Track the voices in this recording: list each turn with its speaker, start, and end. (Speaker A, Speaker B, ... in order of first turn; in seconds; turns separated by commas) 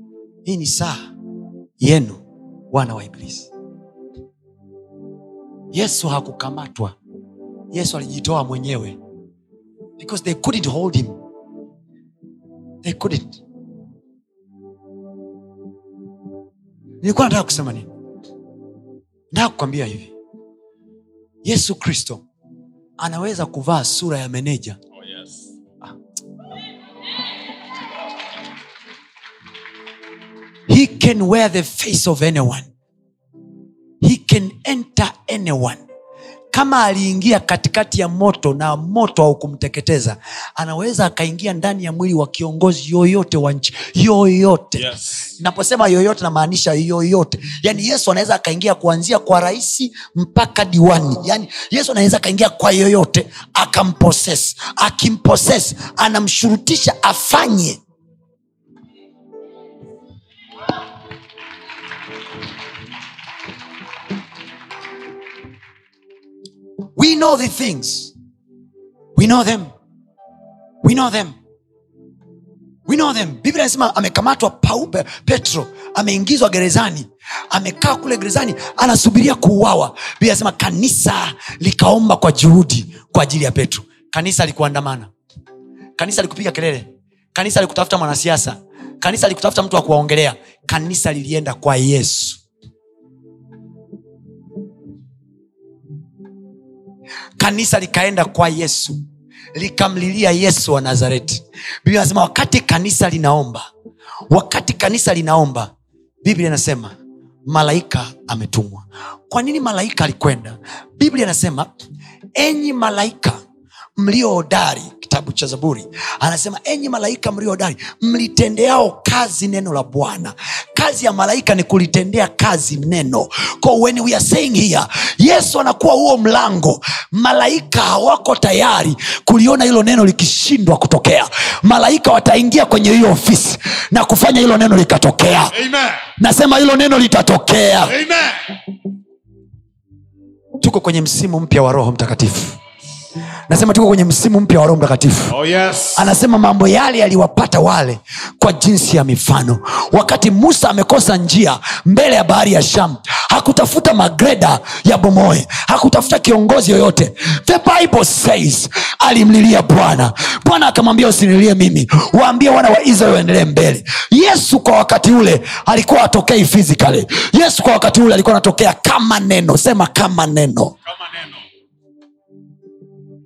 Speaker A: 0.5-1.0, Speaker A: 1.8-2.2, Speaker A: 2.7-3.5, Speaker A: 5.7-7.0, Speaker A: 7.7-9.0, Speaker A: 10.0-11.2, Speaker A: 12.8-13.4, Speaker A: 17.0-17.9, Speaker A: 19.3-20.1, Speaker A: 21.4-22.2, Speaker A: 23.0-24.8, Speaker B: 25.0-25.5, Speaker A: 30.7-32.7, Speaker A: 34.0-35.8, Speaker A: 36.5-57.8, Speaker B: 44.8-45.3, Speaker A: 67.0-68.1, Speaker A: 69.2-69.7, Speaker A: 70.8-71.3, Speaker A: 72.9-85.1, Speaker A: 86.0-92.4, Speaker A: 97.4-99.0, Speaker A: 99.5-103.7, Speaker A: 104.3-105.7, Speaker A: 106.2-107.0, Speaker A: 107.5-111.7, Speaker A: 112.4-113.4, Speaker A: 114.0-135.6, Speaker B: 135.5-136.0, Speaker A: 136.2-137.9, Speaker B: 137.9-138.4, Speaker A: 140.6-142.6, Speaker A: 143.5-145.4, Speaker B: 145.3-146.1, Speaker A: 145.9-170.7, Speaker B: 170.9-171.4